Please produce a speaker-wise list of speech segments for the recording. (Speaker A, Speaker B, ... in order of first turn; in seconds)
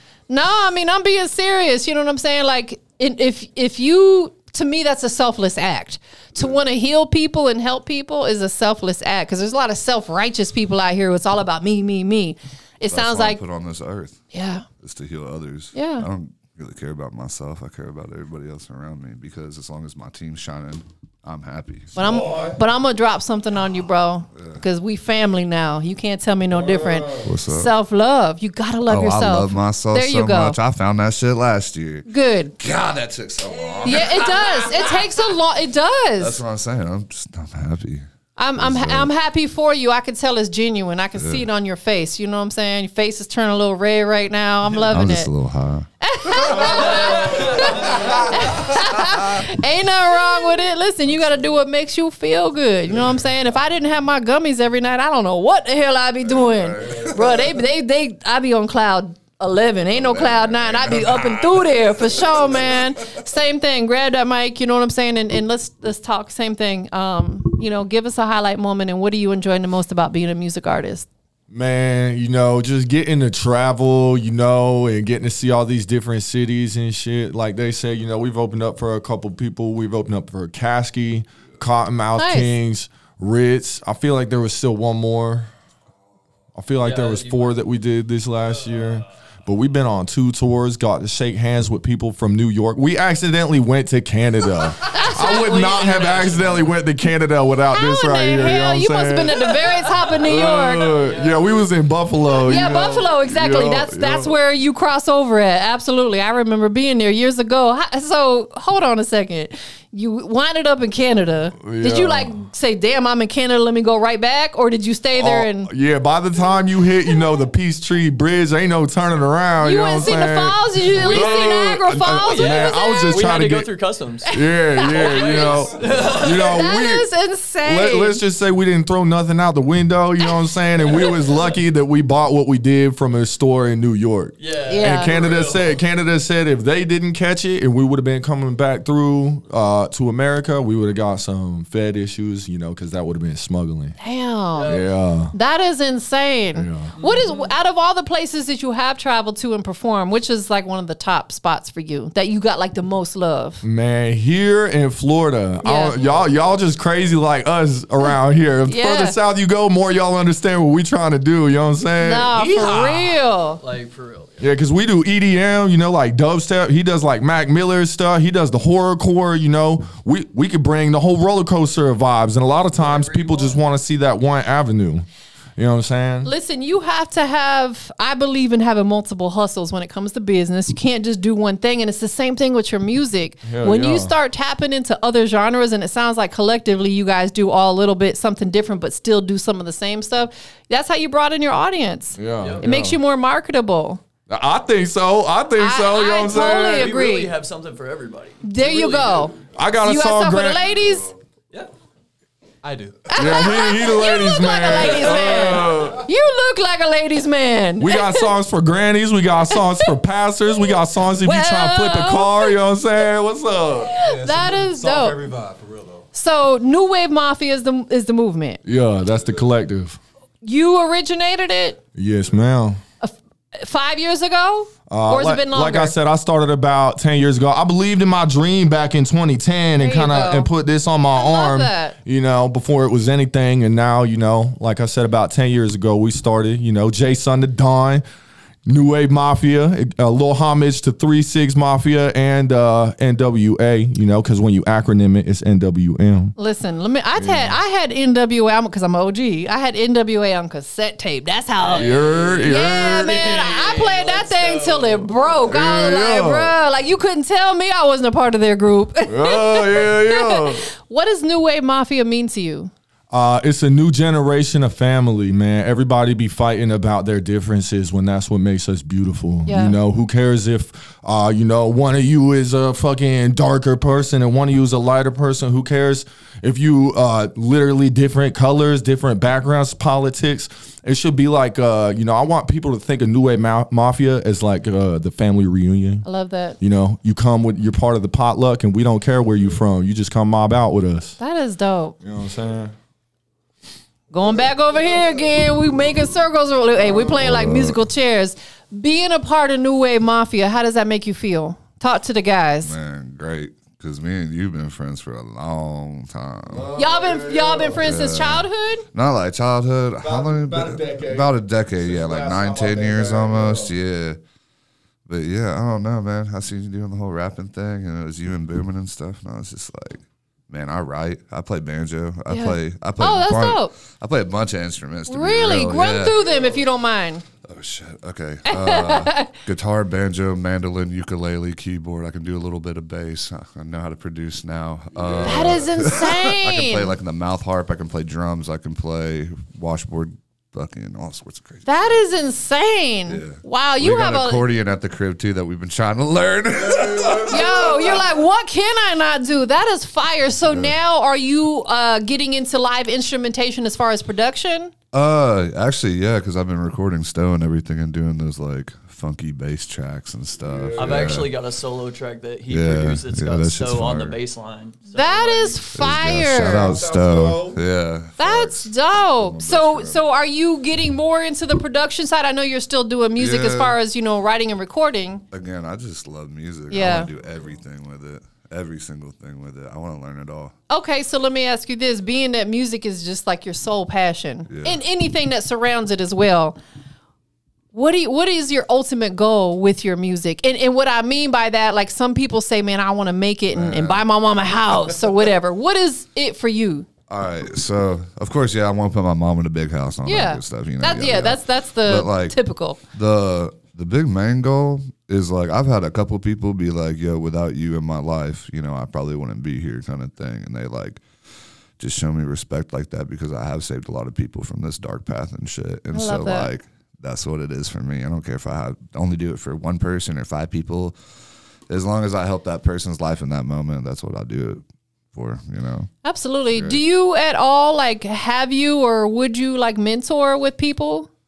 Speaker A: 0.3-13.4, 14.3-14.7, 15.7-16.1, 21.9-30.6, 32.1-32.6, 33.8-36.4, 38.4-45.3, 46.0-71.1, 82.2-82.5, 94.9-96.5, 97.7-101.0, 102.4-115.7, 119.6-123.3, 124.3-125.6, 126.3-128.2, 134.7-135.2, 144.0-144.8, 145.3-153.6, 155.6-156.0, 158.7-159.2, 162.0-163.6, 176.2-194.0, 195.6-197.3, 198.4-201.1, 203.1-208.3, 209.5-209.9, 211.2-212.6, 213.9-215.2, 216.1-218.6, 220.4-221.8, 223.0-225.9, 229.8-230.5, 231.1-232.0, 246.4-262.7, 269.5-269.8, 286.1-286.6, 291.2-292.0, 294.1-302.7, 306.8-308.9, 322.3-323.7, 325.1-327.2, 328.5-329.3, 335.2-336.9, 341.7-344.4, 347.3-354.7, 364.9-366.8, 368.2-375.2, 376.7-377.1, 380.7-386.6, 387.7-396.9, 400.1-402.8, 415.9-416.5, 426.0-431.1
Speaker B: 12.9-14.2, 14.8-22.0, 24.4-24.6, 27.2-27.7, 28.9-32.1, 32.6-35.0, 36.2-38.0, 38.6-39.1, 41.2-41.5, 44.9-49.6, 56.3-57.5, 59.9-63.2, 296.9-297.8, 302.6-306.7, 307.8-314.2, 315.1-326.2, 327.4-342.0, 343.1-348.1, 350.5-350.7, 354.9-361.3, 362.5-364.2, 365.8-370.0, 373.2-373.8, 375.3-380.6, 384.5-384.8, 393.5-394.1, 397.1-402.4, 402.9-411.0, 411.8-421.0, 421.7-425.9, 426.5-426.8
Speaker C: 22.0-22.6, 26.5-27.3, 47.5-48.3, 71.5-85.5, 86.5-104.4, 111.6-112.3, 115.2-123.7, 124.3-127.1, 127.6-144.0, 144.7-145.3, 146.6-146.9, 153.6-162.3, 164.4-175.1, 175.6-176.3, 183.4-184.2, 192.2-193.0, 194.3-196.9, 199.5-200.9, 203.2-206.1, 207.8-214.0, 218.7-220.0, 222.0-222.8, 224.9-238.0, 238.7-246.3, 247.2-247.6, 251.8-253.2, 255.5-256.6, 259.1-260.7, 263.1-286.1, 286.6-291.2, 292.0-292.7, 306.5-307.9, 310.0-313.7, 326.2-326.6, 335.0-335.9, 346.6-348.0, 360.4-361.3, 366.6-367.6
Speaker D: 46.8-47.8, 86.8-87.6, 88.5-89.1, 95.7-96.7, 100.9-101.7, 120.9-124.3, 124.9-126.6, 130.9-131.6, 134.4-135.8, 144.5-144.9, 146.9-147.5, 162.7-164.5, 172.8-173.6, 196.3-199.3, 251.6-255.4, 360.8-365.6
Speaker E: 202.6-203.1, 214.0-216.1